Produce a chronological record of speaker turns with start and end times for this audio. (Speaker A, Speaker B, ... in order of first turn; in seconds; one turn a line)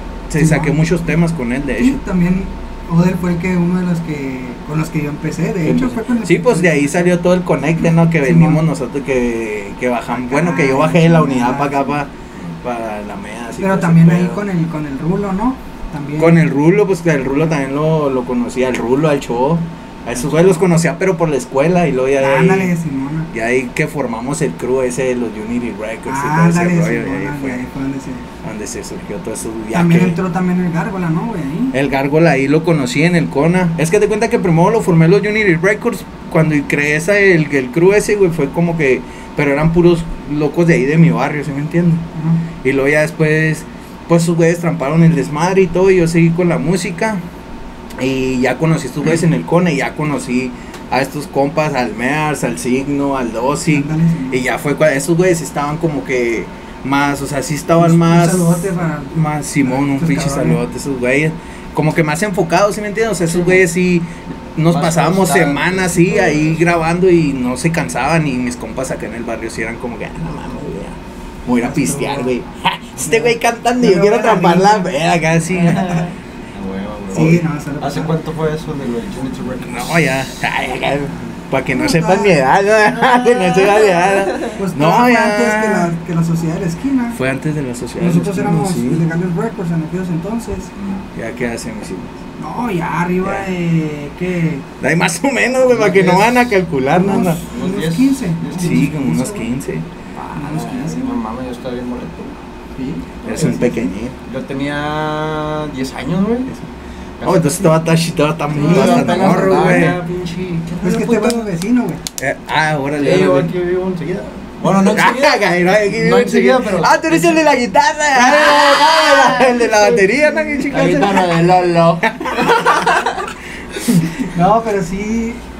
Speaker A: 0.3-2.0
Speaker B: 0.4-0.8
Speaker B: 1.8-7.1
Speaker A: 5.6-12.1
Speaker B: 8.2-8.6
Speaker B: 10.1-12.0
Speaker A: 12.6-14.4
Speaker B: 13.6-16.4
Speaker A: 16.2-22.7
Speaker B: 20.2-20.6
Speaker B: 22.2-23.3
Speaker A: 23.3-27.6
Speaker B: 26.1-28.2
Speaker A: 28.4-30.2
Speaker B: 29.7-31.7
Speaker A: 31.7-42.0
Speaker B: 42.1-42.4
Speaker A: 42.6-47.2
Speaker A: 48.0-76.0
Speaker B: 53.7-54.4
Speaker B: 57.8-60.6
Speaker C: 63.3-63.6
Speaker C: 64.7-66.7
Speaker B: 71.6-72.3
Speaker B: 73.0-74.9
Speaker C: 75.5-80.1
Speaker B: 75.7-76.0
Speaker B: 77.1-78.1
Speaker A: 79.6-85.9
Speaker B: 81.7-82.3
Speaker C: 82.9-84.6
Speaker B: 84.5-87.2
Speaker A: 87.1-89.0
Speaker B: 88.0-90.9
Speaker A: 91.1-92.2
Speaker B: 92.4-94.6
Speaker A: 93.2-93.5
Speaker A: 94.8-97.4
Speaker C: 95.6-98.9
Speaker B: 97.0-99.5
Speaker A: 98.5-99.9
Speaker C: 100.1-102.3
Speaker B: 100.3-101.2
Speaker B: 102.8-103.7
Speaker C: 103.2-106.5
Speaker A: 103.2-104.1
Speaker C: 107.2-107.8
Speaker A: 107.2-110.0
Speaker C: 108.5-111.5
Speaker B: 108.5-109.9
Speaker B: 110.8-112.0
Speaker A: 112.2-113.5
Speaker C: 112.9-117.5
Speaker A: 114.6-121.4
Speaker C: 118.1-123.3
Speaker A: 122.0-122.8
Speaker B: 124.2-125.4